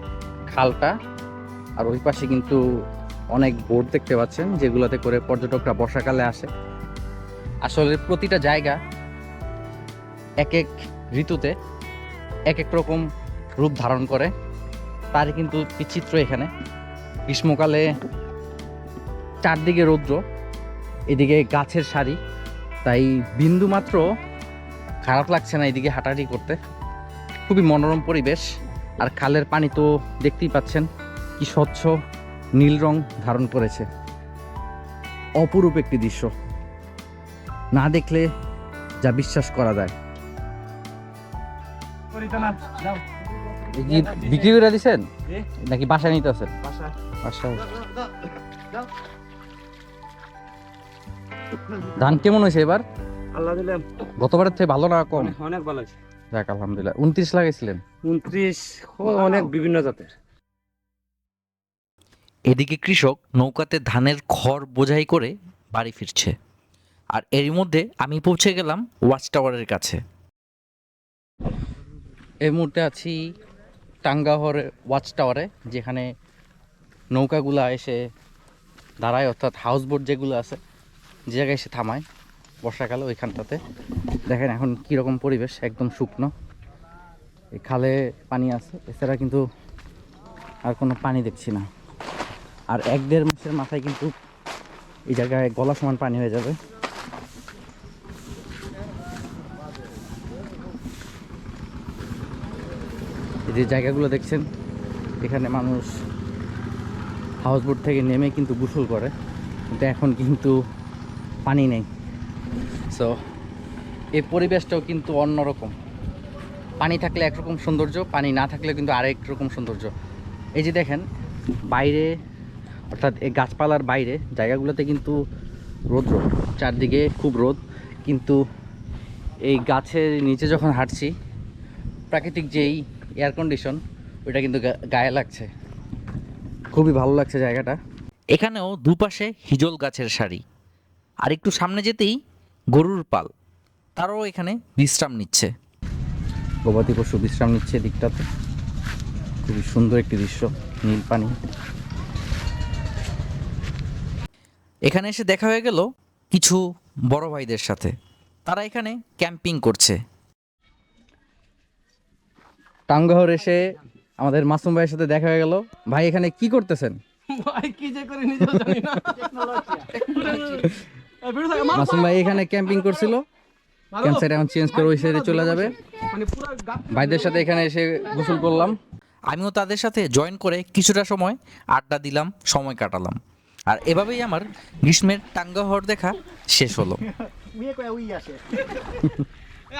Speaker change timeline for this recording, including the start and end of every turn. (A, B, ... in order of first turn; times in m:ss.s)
0:00.5-0:00.9 A
0:01.8-0:02.6 A
0:03.3-0:06.5 A
0:07.6-0:08.8 A
0:10.4-0:11.5 A
0:12.5-0:13.0 A
0:13.6-0:14.3 A
0:15.1-0:16.5 A
0:17.3-0:17.8 A
0:19.4-0:20.2 A
0:21.1-0:22.2 A
0:22.8-0:24.0 A
0:25.0-0:26.6 A
0:27.5-0:28.4 A
0:29.0-0:30.8 A
0:31.4-0:31.9 A
0:32.6-0:33.8 A
0:35.4-0:36.3 A
0:37.7-0:38.3 A
0:39.0-0:39.9 A
0:43.7-0:45.0 A
0:45.6-0:46.5 A
0:47.2-0:47.6 A
0:52.0-0:52.8 A
0:53.3-0:53.8 B
0:54.2-0:55.4 A
0:55.2-0:55.9 B
0:56.3-0:57.8 A
0:58.0-1:00.1 B
1:02.5-1:06.3 C
1:07.1-1:10.0 C
1:12.4-1:13.1 A
1:14.0-1:16.0 A
1:17.1-1:18.0 A
1:19.0-1:20.6 A
1:21.3-1:22.0 A
1:22.6-1:23.6 A
1:24.3-1:26.3 A
1:27.6-1:29.4 A
1:30.6-1:31.6 A
1:32.7-1:34.1 A
1:35.1-1:36.6 A
1:43.5-1:44.4 A
1:45.2-1:45.9 A
1:47.4-1:49.1 A
1:49.7-1:50.6 A
1:51.5-1:51.8 A
1:54.2-1:55.7 A
1:56.8-1:59.9 A
2:00.6-2:01.0 A
2:01.7-2:02.1 A
2:02.9-2:05.1 A
2:05.9-2:08.4 A
2:09.5-2:11.1 A
2:12.1-2:15.5 A
2:16.7-2:17.8 A
2:18.3-2:20.4 C
2:21.2-2:22.2 C
2:22.7-2:23.3 C
2:24.0-2:25.5 C
2:26.7-2:28.2 A
2:29.4-2:31.3 A
2:34.9-2:37.9 C
2:38.4-2:40.0 C
2:42.9-2:43.6 A
2:44.2-2:47.0 A
2:47.3-2:50.3 B
2:51.3-2:51.8 B
2:51.7-2:53.2 A
2:54.0-2:55.8 A
2:56.1-2:56.8 B
2:56.9-2:58.8 A
2:59.3-3:03.2 C
3:03.7-3:07.1 C
3:07.7-3:08.4 B